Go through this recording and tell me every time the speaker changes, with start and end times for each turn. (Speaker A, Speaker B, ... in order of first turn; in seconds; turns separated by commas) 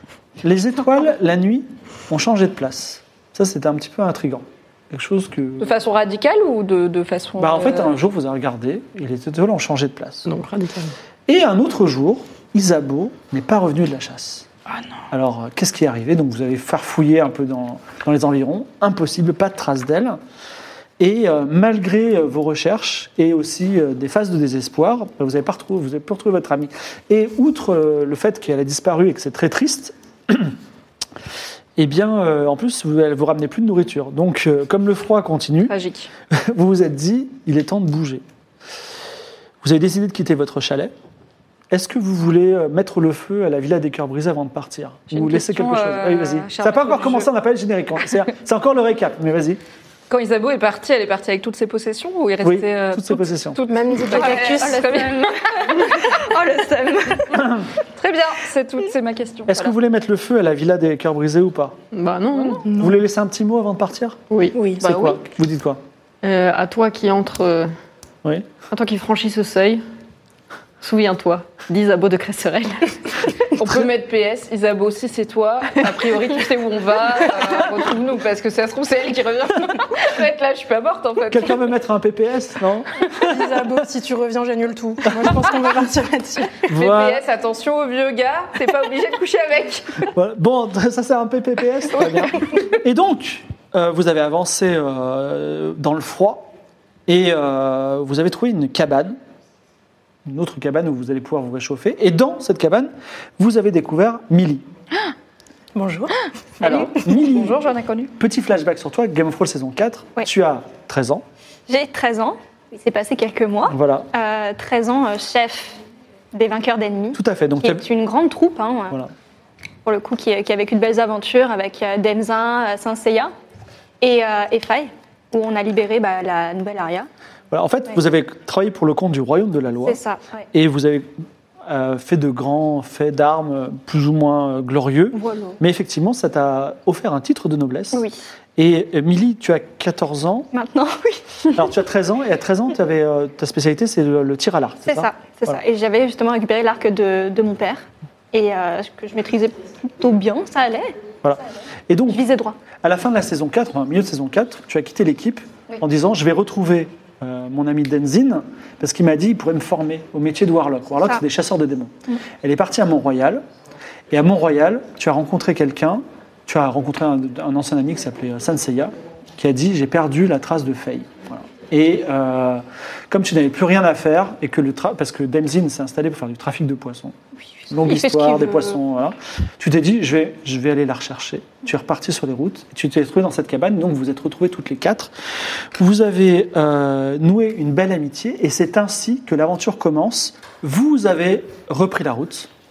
Speaker A: 0.4-5.7, Speaker B: 5.6-7.9, Speaker A: 7.4-10.3, Speaker C: 10.2-10.9, Speaker A: 11.3-14.5, Speaker B: 14.7-15.0, Speaker A: 15.1-20.2, Speaker A: 21.0-30.6, Speaker A: 31.8-35.7, Speaker B: 35.7-36.1, Speaker A: 36.3-38.2, Speaker A: 39.6-40.9, Speaker A: 41.7-49.6, Speaker B: 45.1-47.3, Speaker B: 50.1-56.1, Speaker A: 52.4-53.6, Speaker D: 53.7-55.1, Speaker E: 54.1-57.6, Speaker B: 58.0-59.7, Speaker A: 59.5-61.8, Speaker C: 61.9-62.6, Speaker D: 62.6-63.0, Speaker A: 62.8-64.2, Speaker C: 64.3-64.5, Speaker D: 64.5-65.1, Speaker A: 64.8-65.8, Speaker C: 66.2-67.7, Speaker A: 68.2-68.5, Speaker C: 68.7-69.8, Speaker C: 70.8-73.3, Speaker B: 73.5-81.6, Speaker A: 81.3-83.7, Speaker D: 83.2-86.7, Speaker A: 86.7-87.2, Speaker B: 86.7-90.1, Speaker A: 90.1-96.5, Speaker A: 97.1-99.2, Speaker A: 100.2-104.7, Speaker D: 105.7-106.1, Speaker B: 106.6-108.1, Speaker A: 106.6-107.6, Speaker A: 108.2-111.2, Speaker E: 111.7-115.8, Speaker A: 113.7-114.1, Speaker E: 116.3-119.0, Speaker A: 117.1-117.8, Speaker E: 119.8-123.3, Speaker E: 124.0-127.1, Speaker A: 127.5-130.0, Speaker E: 129.8-130.4, Speaker A: 130.5-131.1, Speaker A: 131.7-138.1, Speaker E: 135.2-135.6, Speaker E: 137.9-138.2, Speaker A: 138.6-140.5, Speaker E: 140.5-141.6, Speaker A: 141.5-145.6, Speaker E: 144.8-151.0, Speaker A: 151.2-152.2, Speaker E: 152.1-152.6, Speaker A: 152.8-163.4, Speaker A: 164.1-177.2, Speaker A: 177.7-185.1, Speaker E: 177.9-178.7, Speaker A: 185.8-192.5